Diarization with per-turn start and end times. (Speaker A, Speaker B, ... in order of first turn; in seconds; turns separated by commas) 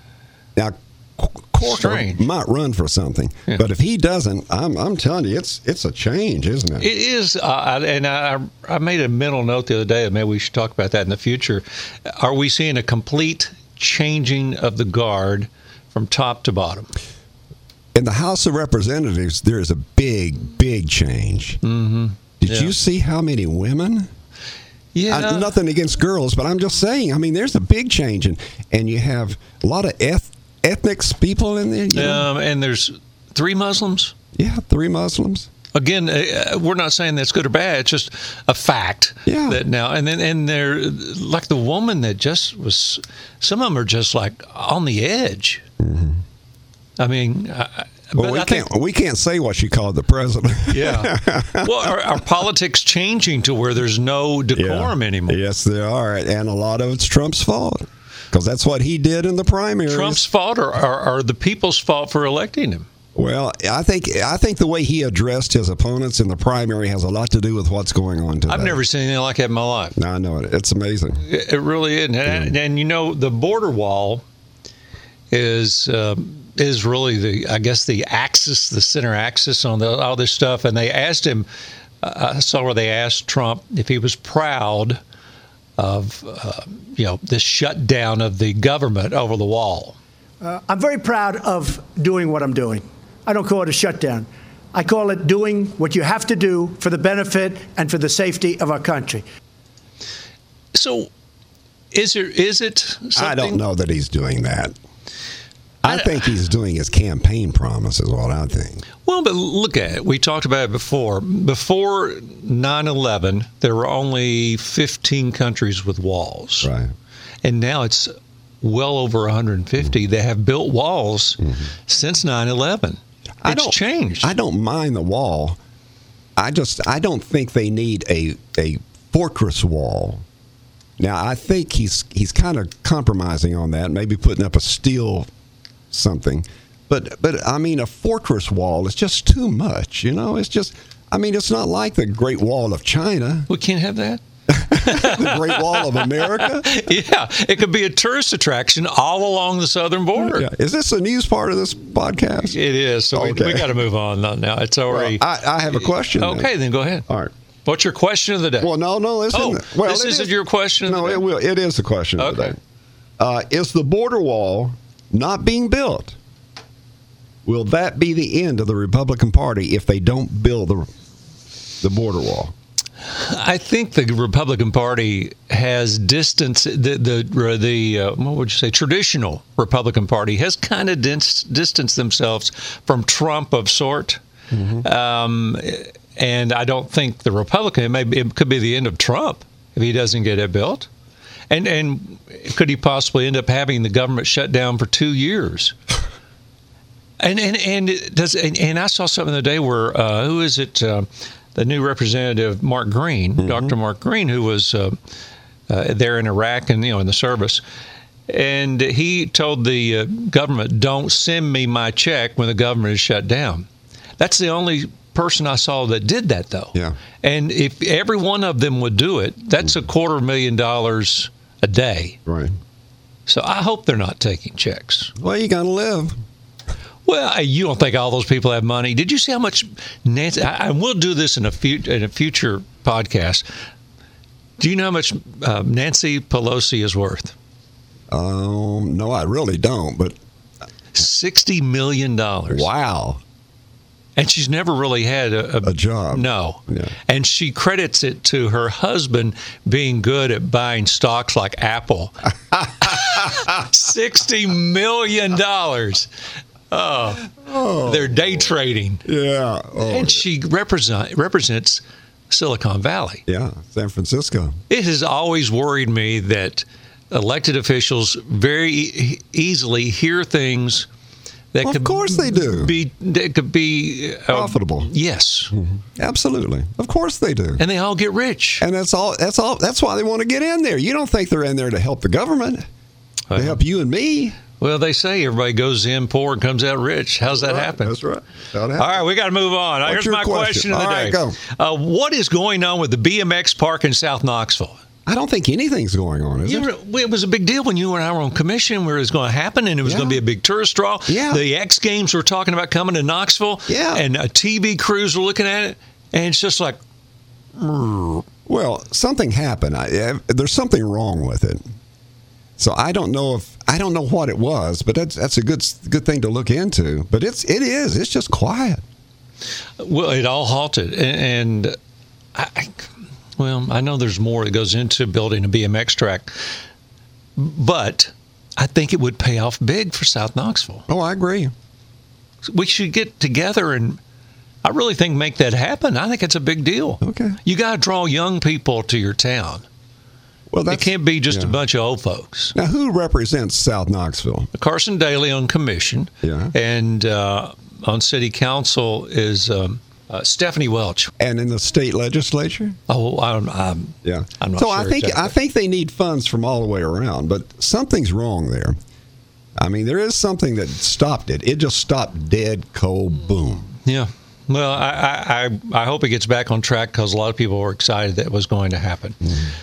Speaker A: 0.6-6.9, Speaker B: 1.6-2.2, Speaker B: 6.8-16.9, Speaker A: 17.9-21.6, Speaker B: 21.6-22.7, Speaker A: 22.4-24.1, Speaker B: 24.9-25.5, Speaker A: 25.1-32.3, Speaker B: 31.9-34.1, Speaker A: 34.3-35.5, Speaker B: 35.8-45.6, Speaker A: 39.2-39.6, Speaker A: 45.8-46.2, Speaker B: 47.0-48.7, Speaker A: 48.2-51.7, Speaker B: 50.7-55.4, Speaker A: 54.5-60.2, Speaker B: 59.9-62.9, Speaker A: 63.1-68.8, Speaker B: 68.5-70.0, Speaker A: 70.0-71.2, Speaker B: 71.2-74.2, Speaker A: 72.2-72.5, Speaker B: 75.3-81.5, Speaker B: 82.0-85.0, Speaker B: 85.8-90.0, Speaker C: 90.4-99.2, Speaker B: 100.7-101.1, Speaker B: 101.9-103.6, Speaker A: 103.2-104.8, Speaker A: 105.8-108.8, Speaker B: 109.0-116.7, Speaker A: 116.6-116.9, Speaker B: 117.4-124.3, Speaker A: 123.4-125.6, Speaker A: 126.4-130.2, Speaker A: 131.0-135.3, Speaker A: 135.9-143.5, Speaker B: 143.5-150.5, Speaker A: 144.5-146.7, Speaker A: 150.2-152.6, Speaker B: 152.5-155.2, Speaker A: 153.1-153.7, Speaker A: 154.9-156.5, Speaker B: 155.8-157.1, Speaker B: 157.7-158.7, Speaker A: 158.6-160.3, Speaker B: 159.3-161.2, Speaker A: 160.8-162.6, Speaker B: 162.2-162.6, Speaker A: 163.2-166.1, Speaker A: 167.4-170.9, Speaker A: 171.8-172.5, Speaker B: 173.1-184.2, Speaker A: 184.5-184.8, Speaker B: 184.8-190.9, Speaker B: 191.5-195.7, Speaker B: 197.2-204.9, Speaker A: 203.4-203.7, Speaker B: 205.7-207.6, Speaker B: 208.3-213.7, Speaker B: 214.2-222.2, Speaker A: 222.2-222.5, Speaker B: 223.3-225.1, Speaker A: 225.2-226.2, Speaker B: 227.1-233.4, Speaker B: 234.6-237.3, Speaker A: 238.1-240.2, Speaker B: 240.9-242.7, Speaker A: 242.5-243.2, Speaker B: 244.2-252.1, Speaker A: 245.6-246.9, Speaker B: 252.8-256.1, Speaker B: 256.7-259.0, Speaker A: 257.4-258.5, Speaker A: 259.1-260.2, Speaker B: 259.8-263.2, Speaker A: 263.3-264.6, Speaker B: 264.7-270.9, Speaker B: 271.5-275.5, Speaker A: 271.6-272.7, Speaker A: 274.3-274.9, Speaker A: 275.6-277.6, Speaker B: 277.6-278.6, Speaker A: 278.6-282.6, Speaker B: 283.3-283.6, Speaker A: 283.3-284.4, Speaker B: 284.6-288.0, Speaker A: 287.4-289.0, Speaker B: 288.8-294.8, Speaker A: 289.9-291.4, Speaker A: 295.1-296.7, Speaker B: 296.4-306.8, Speaker A: 299.9-300.2, Speaker A: 301.1-301.4, Speaker A: 303.7-304.0, Speaker B: 307.6-308.2, Speaker A: 308.5-311.6, Speaker A: 312.6-318.8, Speaker B: 319.8-321.8, Speaker B: 322.4-326.3, Speaker B: 327.4-330.9, Speaker A: 330.9-331.5, Speaker B: 332.4-334.0, Speaker B: 334.6-339.6, Speaker A: 337.0-337.4, Speaker A: 340.5-341.6, Speaker B: 340.7-342.6, Speaker A: 342.6-344.5, Speaker B: 344.5-351.1, Speaker A: 346.2-346.5, Speaker A: 351.2-352.8, Speaker B: 352.9-355.3, Speaker A: 354.0-358.8, Speaker A: 359.6-363.7, Speaker B: 363.9-369.3